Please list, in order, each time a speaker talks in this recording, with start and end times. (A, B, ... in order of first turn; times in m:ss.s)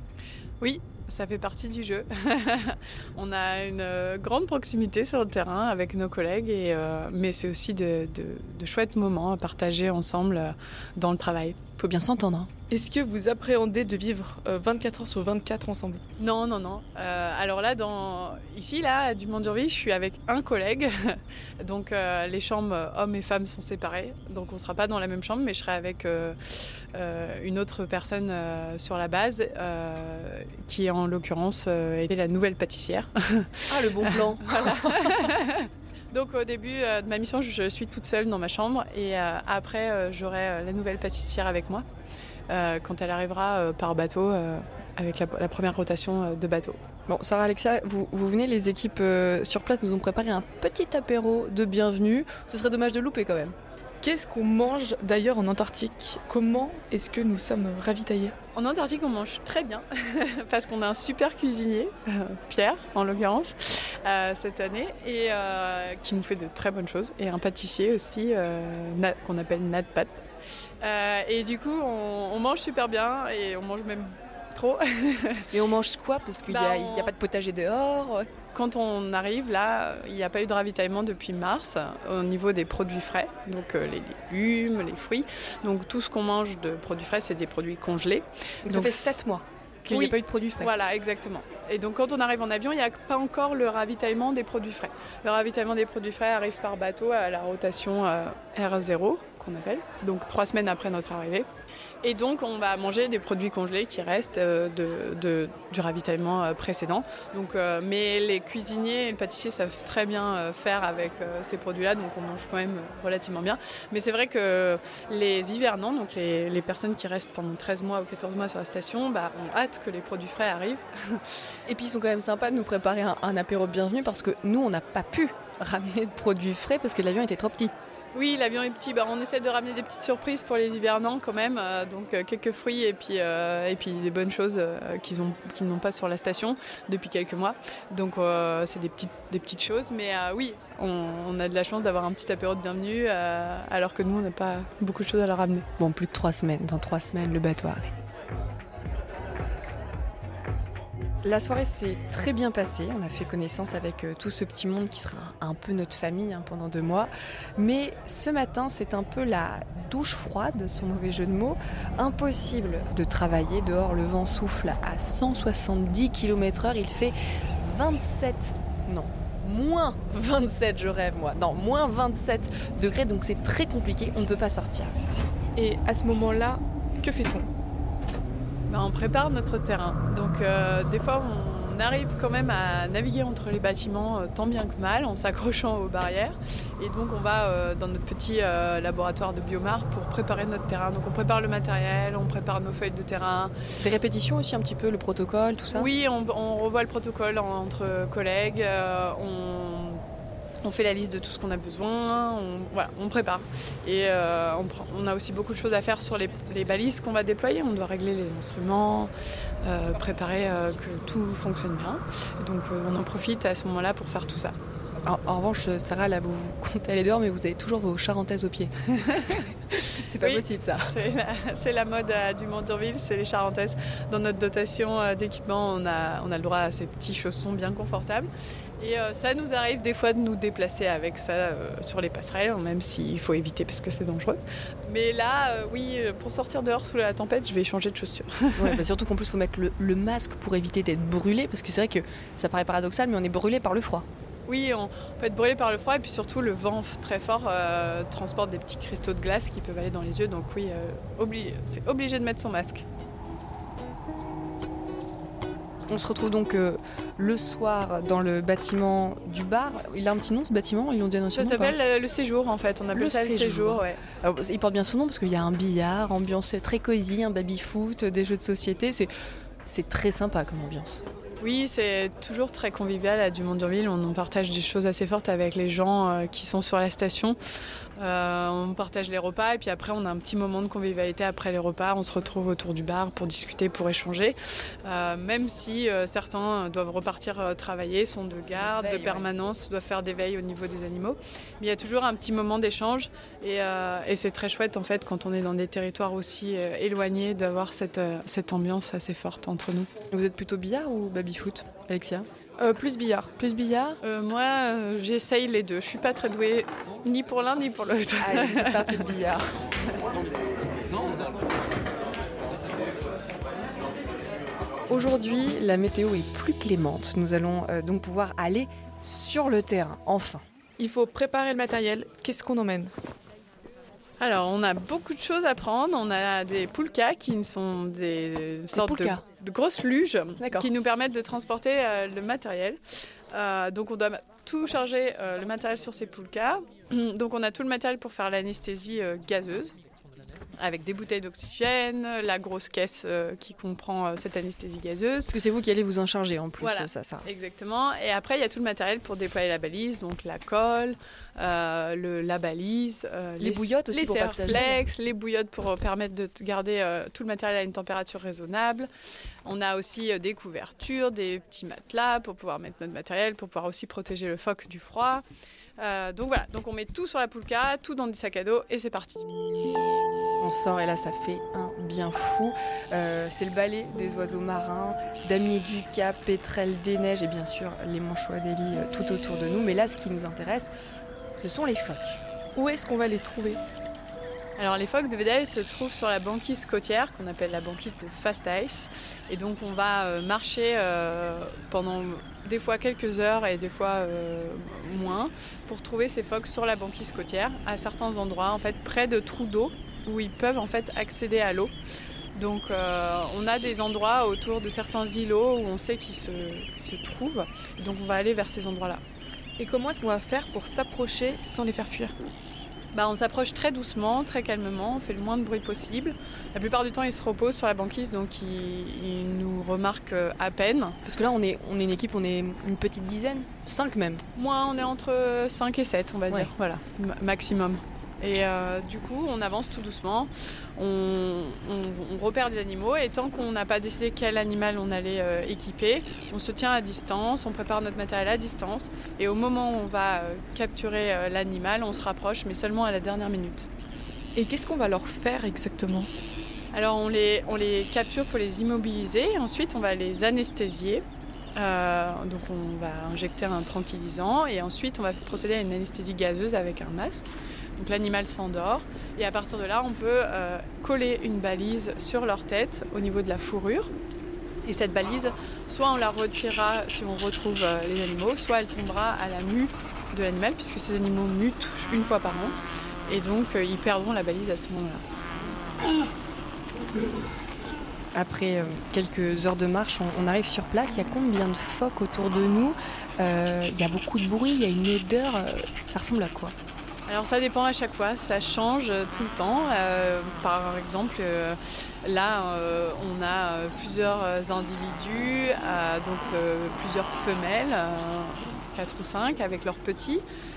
0:00.6-0:11.6 A
0:11.8-0:12.5 B
0:12.7-0:16.0 C
0:16.2-0:41.8 A
0:33.7-0:35.3 B
0:42.5-0:46.8 A
0:47.1-0:53.6 B
0:54.0-0:58.3 C
0:58.6-1:10.3 A
1:10.8-1:15.5 A
1:15.5-1:18.3 B
1:16.5-1:17.1 A
1:18.5-1:28.2 A
1:28.7-1:30.7 B
1:28.7-1:29.2 C
1:29.9-1:41.5 A
1:42.0-2:01.2 A
2:01.7-2:07.7 B
2:08.2-2:25.7 A
2:25.8-2:27.9 B
2:31.2-2:55.0 B
2:55.6-2:57.5 C
2:58.7-3:13.5 A
3:13.8-3:15.9 B
3:15.7-3:20.0 A
3:20.6-3:29.1 A
3:29.6-3:34.6 A
3:35.0-3:40.9 B
3:38.9-3:58.8 A
3:58.6-4:04.1 B
4:04.5-4:12.9 A
4:15.9-4:21.8 B
4:21.3-4:24.0 A
4:22.9-4:29.1 B
4:29.6-4:31.0 B
4:31.4-4:37.4 A
4:38.0-4:59.9 A
4:48.6-4:49.3 B
5:00.1-5:02.3 B
5:02.6-5:03.3 C
5:03.4-5:04.0 B
5:04.0-5:09.1 A
5:08.2-5:09.6 B
5:14.9-5:20.4 B
5:20.8-5:22.9 C
5:24.2-5:32.8 A
5:28.7-5:29.2 B
5:30.4-5:30.7 B
5:33.3-5:39.7 A
5:40.6-5:45.3 A
5:45.3-5:47.3 B
5:46.6-5:53.7 A
5:53.4-5:54.7 B
5:53.9-5:54.7 C
5:54.4-5:58.9 A
5:59.4-6:05.2 A
6:05.8-6:09.3 A
6:10.4-6:20.7 B
6:21.4-6:22.2 B
6:22.6-6:23.6 C
6:24.6-6:41.7 A
6:42.4-6:49.0 A
6:49.6-6:52.2 C
6:52.9-7:01.0 A
7:01.0-7:04.2 B
7:04.4-7:23.7 A
7:24.4-7:26.1 C
7:26.7-7:31.0 A
7:31.6-7:43.9 A
7:44.6-7:55.0 A
7:58.1-8:06.6 B
8:07.1-8:20.2 A